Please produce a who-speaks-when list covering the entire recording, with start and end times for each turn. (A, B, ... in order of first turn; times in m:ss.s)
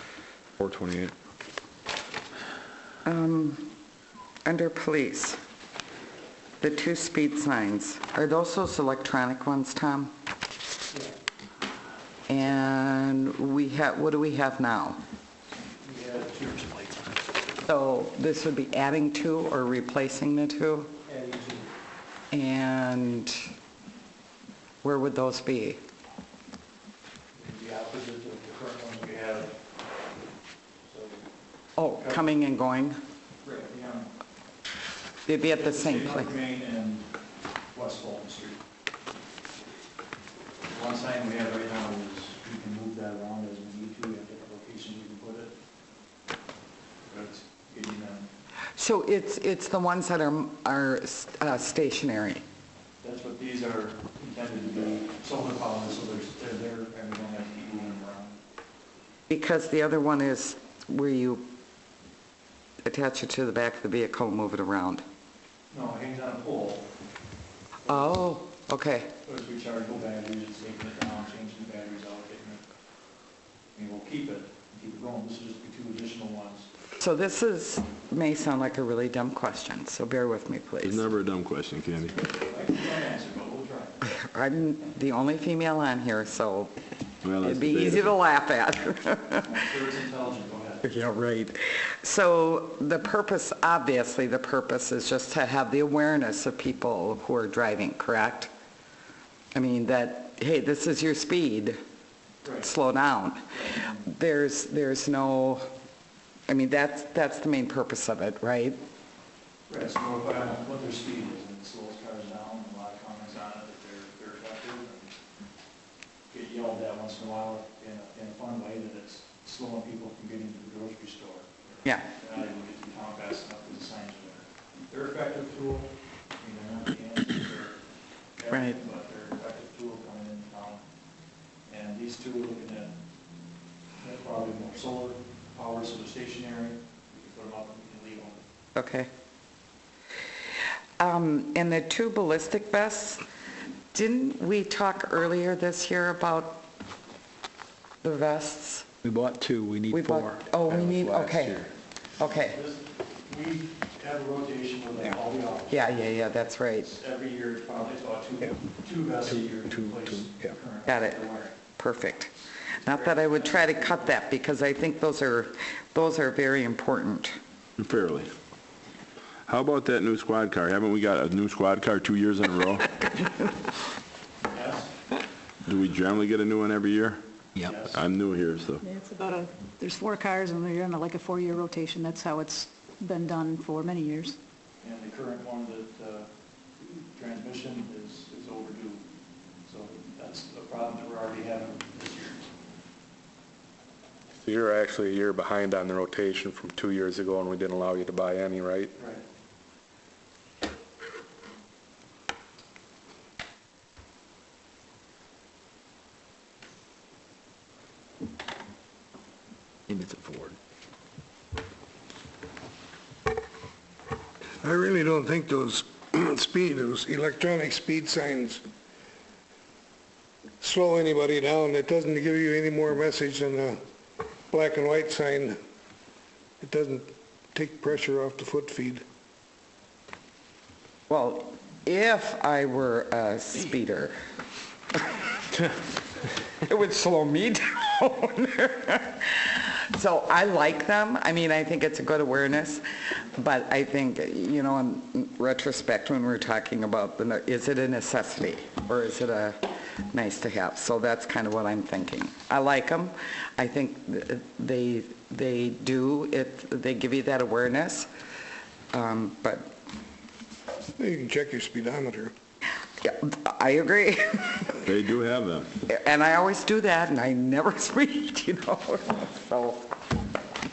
0:00.6-0:01.1 A
0:03.0-0:03.7 B
0:04.4-0:05.4 B
0:06.6-0:10.1 B
0:12.3-0:15.0 B
0:15.6-0:17.1 C
0:17.6-0:20.9 B
0:21.1-0:21.7 C
0:22.3-0:23.4 B
0:24.8-0:25.8 B
0:27.4-0:29.5 C
0:30.9-0:31.2 C
0:31.8-0:33.0 B
0:33.4-0:34.1 C
0:35.3-0:36.3 B
0:35.6-0:37.1 C
0:37.7-0:38.6 C
0:40.7-0:45.5 C
0:47.1-0:48.3 C
0:48.8-0:52.4 B
0:53.0-0:58.4 C
0:59.3-1:01.5 B
1:02.8-1:05.0 B
1:05.7-1:06.9 C
1:07.8-1:08.3 C
1:07.9-1:09.1 B
1:09.2-1:12.6 C
1:13.7-1:16.7 C
1:17.0-1:21.1 B
1:20.8-1:22.2 D
1:22.0-1:24.0 C
1:24.1-1:26.7 B
1:27.2-1:28.2 D
1:27.4-1:29.5 B
1:29.4-1:30.9 C
1:30.8-1:38.5 B
1:39.6-1:41.8 B
1:42.4-1:42.7 C
1:42.6-1:45.7 B
1:43.5-1:44.0 C
1:46.5-1:48.8 B
1:49.7-1:55.1 C
1:56.3-2:07.7 C
2:08.4-2:10.8 C
2:08.5-2:08.8 B
2:11.7-2:12.9 C
2:14.0-2:18.4 C
2:18.8-2:19.1 B
2:21.0-2:23.2 B
2:23.9-2:26.6 B
2:28.0-2:28.9 B
2:29.0-2:31.6 A
2:29.9-2:31.7 B
2:32.2-2:32.6 B
2:32.5-2:35.8 C
2:35.7-2:36.9 B
2:36.8-2:41.6 C
2:40.9-2:41.2 B
2:41.8-2:42.3 B
2:42.8-2:44.1 C
2:42.8-2:47.4 B
2:47.8-2:48.3 D
2:49.5-2:52.9 D
2:54.5-2:54.9 C
2:55.7-2:57.2 D
2:57.6-2:58.0 C
2:57.8-2:58.8 D
2:58.8-3:04.4 E
3:04.8-3:06.3 C
3:07.0-3:09.0 C
3:09.7-3:12.4 C
3:14.3-3:18.9 F
3:19.0-3:19.2 C
3:29.9-3:30.6 A
3:34.6-3:38.6 G
3:40.6-3:43.8 G
3:44.5-3:45.6 G
3:46.6-3:49.0 G
3:51.1-3:54.2 B
3:56.7-4:18.1 B
4:18.9-4:19.7 B
4:21.0-4:22.3 G
4:23.0-4:24.8 B
4:24.9-4:25.7 D
4:25.9-4:29.9 B